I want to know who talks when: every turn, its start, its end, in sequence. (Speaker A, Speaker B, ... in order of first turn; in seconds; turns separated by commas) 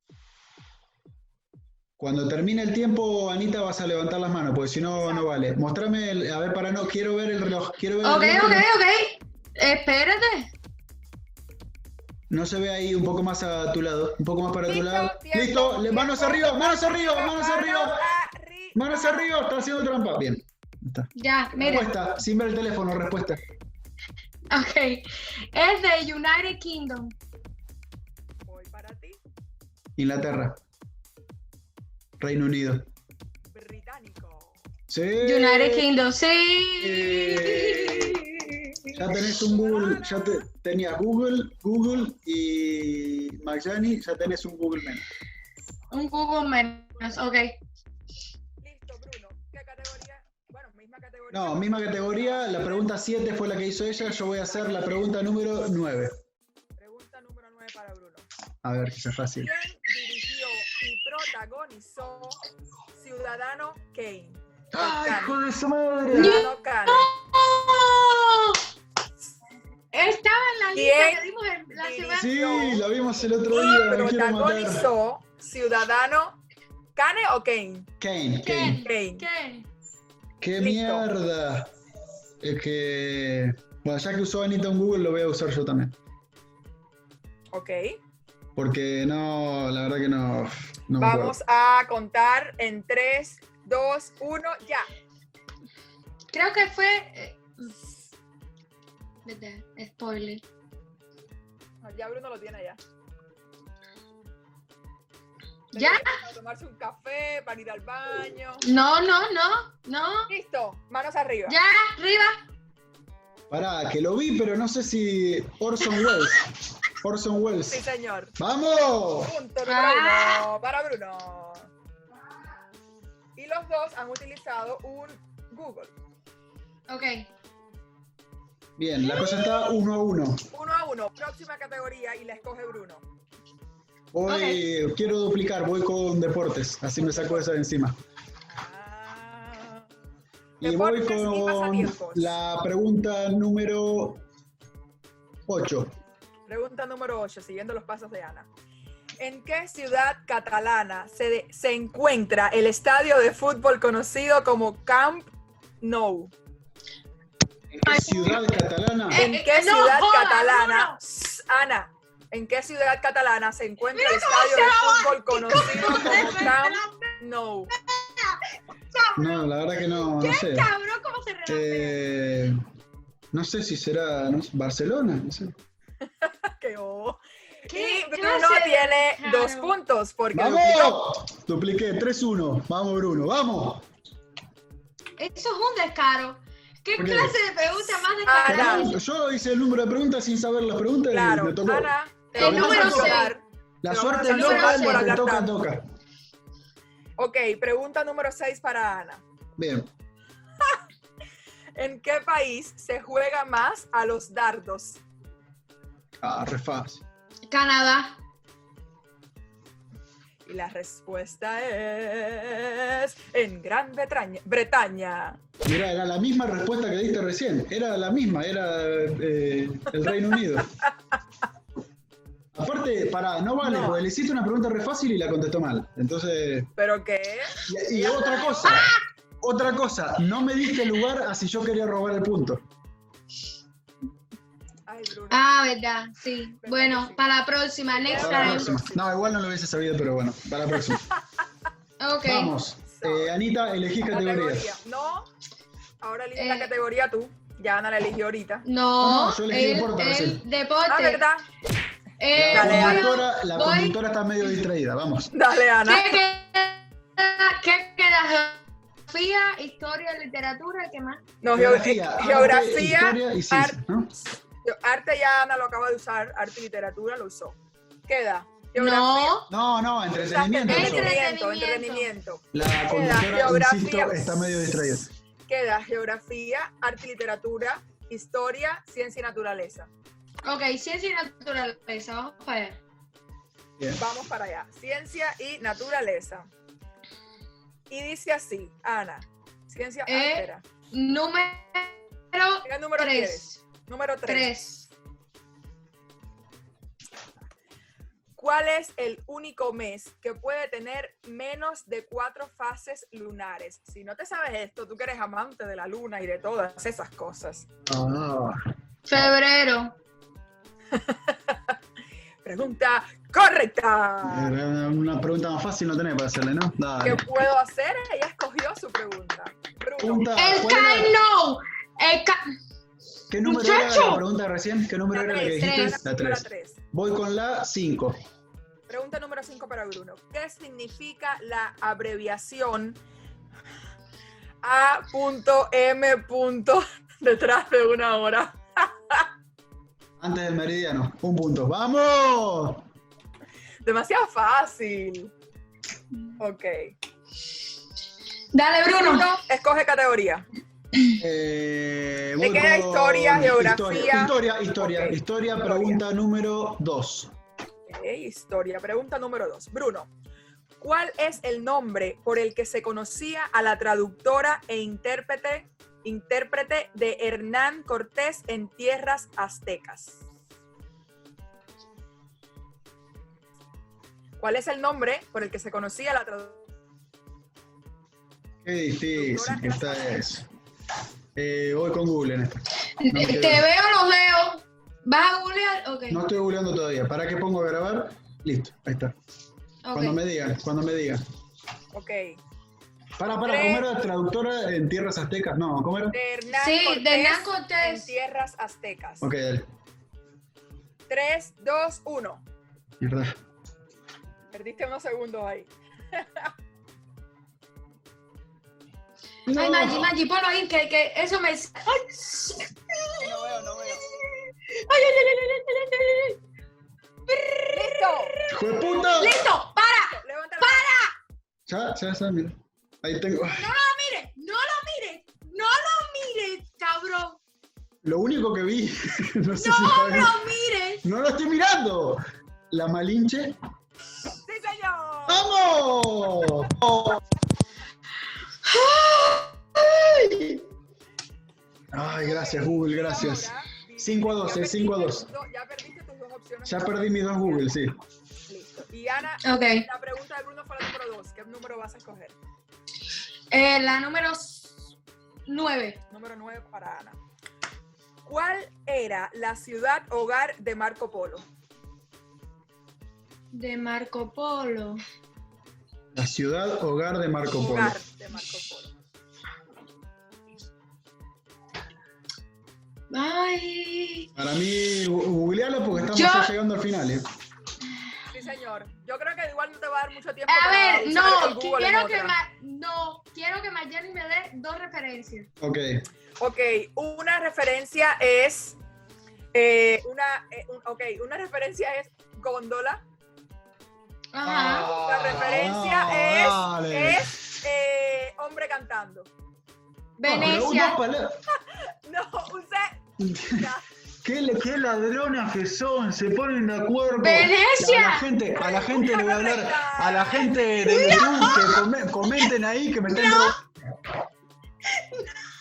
Speaker A: 2.0-8.7, Speaker B: 5.0-5.3, Speaker C: 8.0-10.5, Speaker A: 12.3-18.1, Speaker B: 14.7-19.3, Speaker A: 18.7-23.4, Speaker C: 21.1-21.9, Speaker C: 24.5-27.1, Speaker B: 28.4-29.2, Speaker A: 30.0-30.6, Speaker A: 32.2-32.9, Speaker B: 33.5-34.6, Speaker A: 34.9-35.9, Speaker C: 35.2-38.5, Speaker A: 36.8-38.2, Speaker A: 38.9-45.0, Speaker B: 39.3-40.5, Speaker C: 45.9-47.6, Speaker B: 48.6-52.9, Speaker A: 51.3-56.2, Speaker B: 54.3-54.8, Speaker B: 56.8-58.3, Speaker A: 58.6-59.5, Speaker B: 59.4-62.4, Speaker B: 62.9-65.4, Speaker A: 64.7-66.5, Speaker B: 66.1-67.1, Speaker C: 66.1-68.6, Speaker C: 69.9-72.3, Speaker B: 70.7-71.2, Speaker B: 71.7-72.8, Speaker A: 72.2-74.9, Speaker B: 73.5-76.4, Speaker B: 77.0-77.9, Speaker A: 78.0-78.8, Speaker C: 78.4-79.7, Speaker B: 78.8-79.2, Speaker A: 80.4-81.7, Speaker B: 80.6-81.0, Speaker A: 82.4-85.9, Speaker B: 87.5-88.0, Speaker A: 88.5-91.3, Speaker B: 91.0-94.9, Speaker C: 96.3-97.7, Speaker C: 99.2-100.4, Speaker B: 101.8-102.8, Speaker C: 105.7-106.2, Speaker B: 105.7-108.6, Speaker C: 108.6-110.3, Speaker B: 110.3-111.6, Speaker C: 111.5-112.4, Speaker A: 113.5-117.8, Speaker B: 117.7-118.3, Speaker A: 118.4-119.3, Speaker B: 119.2-121.7, Speaker C: 119.7-120.5, Speaker B: 123.3-125.9, Speaker C: 126.9-127.3, Speaker A: 128.8-130.4, Speaker B: 130.5-133.0, Speaker A: 134.1-138.0, Speaker C: 134.3-134.6, Speaker B: 137.0-137.5, Speaker B: 138.5-139.9, Speaker B: 140.6-142.3, Speaker A: 140.6-144.2, Speaker A: 145.5-145.9, Speaker B: 146.5-148.5, Speaker B: 149.2-155.3, Speaker B: 155.8-156.3, Speaker A: 157.7-159.2, Speaker C: 157.8-158.4, Speaker C: 159.1-161.0, Speaker B: 159.1-167.7, Speaker C: 163.9-167.2, Speaker A: 165.5-166.3, Speaker C: 167.8-168.4, Speaker C: 168.9-172.0, Speaker A: 169.1-170.7, Speaker A: 171.5-172.6, Speaker A: 173.3-175.5, Speaker B: 176.2-181.0, Speaker C: 177.7-179.7, Speaker A: 180.3-183.8, Speaker C: 185.2-189.0, Speaker A: 186.9-187.3, Speaker B: 188.2-188.9, Speaker A: 188.5-193.3, Speaker B: 191.1-195.5, Speaker C: 192.3-193.3, Speaker A: 193.8-195.8, Speaker C: 194.3-195.2, Speaker B: 197.2-199.2, Speaker A: 199.6-199.9, Speaker B: 201.8-205.0, Speaker A: 206.2-207.0, Speaker C: 207.5-208.2, Speaker B: 210.4-215.4, Speaker A: 215.6-220.7, Speaker A: 222.5-226.7, Speaker B: 223.6-224.0, Speaker B: 226.8-228.8, Speaker A: 227.6-232.6, Speaker C: 228.7-229.0, Speaker B: 234.8-235.5, Speaker C: 235.3-238.7, Speaker B: 236.6-237.2, Speaker B: 237.9-239.2, Speaker A: 238.2-241.0, Speaker C: 242.0-242.5, Speaker A: 242.2-244.7, Speaker B: 242.9-243.3, Speaker B: 244.1-245.3, Speaker B: 246.0-248.6, Speaker C: 246.3-246.7, Speaker C: 248.6-251.2, Speaker A: 249.0-250.4, Speaker B: 250.9-251.4, Speaker C: 252.2-254.0, Speaker A: 252.3-255.3, Speaker B: 252.5-253.1, Speaker B: 255.3-256.2, Speaker C: 255.8-261.2, Speaker B: 261.4-263.8, Speaker A: 261.5-264.1, Speaker B: 264.6-269.4, Speaker C: 268.8-269.5, Speaker A: 269.5-271.1, Speaker B: 270.1-279.9, Speaker C: 270.7-272.1, Speaker A: 272.5-275.1, Speaker C: 280.4-282.8, Speaker B: 284.0-286.5, Speaker B: 287.9-290.6, Speaker C: 290.1-293.6, Speaker B: 292.6-294.5, Speaker C: 294.2-294.9, Speaker B: 298.4-307.6, Speaker A: 307.9-308.6, Speaker C: 309.1-309.9, Speaker B: 310.9-311.6, Speaker B: 312.4-314.5, Speaker A: 314.2-317.2, Speaker B: 317.0-320.3, Speaker A: 320.0-321.1, Speaker C: 320.4-322.4, Speaker A: 323.3-328.2, Speaker C: 323.4-324.2, Speaker B: 325.1-326.8, Speaker C: 325.5-326.0, Speaker B: 328.9-333.0, Speaker B: 334.6-339.3, Speaker A: 340.2-342.9, Speaker B: 343.8-345.3, Speaker B: 346.4-346.9, Speaker C: 348.5-349.3, Speaker B: 348.9-350.5, Speaker A: 351.2-357.3, Speaker B: 352.4-356.0, Speaker B: 357.9-360.1, Speaker B: 360.8-370.2, Speaker B: 374.4-376.6, Speaker A: 378.6-380.5, Speaker B: 379.1-380.3, Speaker A: 381.3-383.6, Speaker C: 383.0-386.2, Speaker A: 386.1-389.1, Speaker C: 389.8-390.2, Speaker A: 389.9-391.2, Speaker B: 391.9-392.4, Speaker A: 393.2-396.2, Speaker B: 393.4-393.9, Speaker B: 396.1-399.3, Speaker C: 396.5-398.1, Speaker A: 399.2-399.7, Speaker B: 401.1-402.4, Speaker A: 403.0-403.3, Speaker B: 404.5-406.5, Speaker A: 409.5-410.1, Speaker C: 409.5-413.3, Speaker A: 413.2-414.0, Speaker C: 414.7-416.4, Speaker C: 417.3-421.1, Speaker B: 417.7-420.9, Speaker A: 418.5-419.4, Speaker A: 421.7-423.7, Speaker C: 423.5-427.4, Speaker A: 428.0-430.4, Speaker C: 429.5-431.0, Speaker A: 431.0-433.6, Speaker B: 434.4-436.7, Speaker A: 435.3-437.2, Speaker C: 438.6-440.6, Speaker A: 441.9-445.3, Speaker B: 442.1-447.9, Speaker A: 446.6-448.0, Speaker B: 448.5-452.4, Speaker C: 449.4-449.9, Speaker C: 453.5-454.9, Speaker C: 455.5-456.0, Speaker B: 456.1-457.2, Speaker B: 458.2-461.4, Speaker C: 463.5-465.0, Speaker A: 466.1-468.0, Speaker B: 467.5-468.9, Speaker C: 473.1-474.3, Speaker A: 474.4-477.2, Speaker C: 476.1-476.5, Speaker B: 478.3-482.4, Speaker C: 480.5-485.5, Speaker A: 485.6-486.0, Speaker B: 486.4-488.8, Speaker B: 489.5-493.0, Speaker C: 494.3-494.9, Speaker A: 494.4-497.3, Speaker B: 494.9-499.3, Speaker C: 500.2-501.0, Speaker A: 500.2-501.4, Speaker B: 501.7-502.9, Speaker A: 503.2-503.7, Speaker B: 503.5-503.8, Speaker A: 504.2-513.6, Speaker C: 507.2-508.2, Speaker B: 508.6-511.1, Speaker C: 510.9-511.8, Speaker C: 513.1-513.6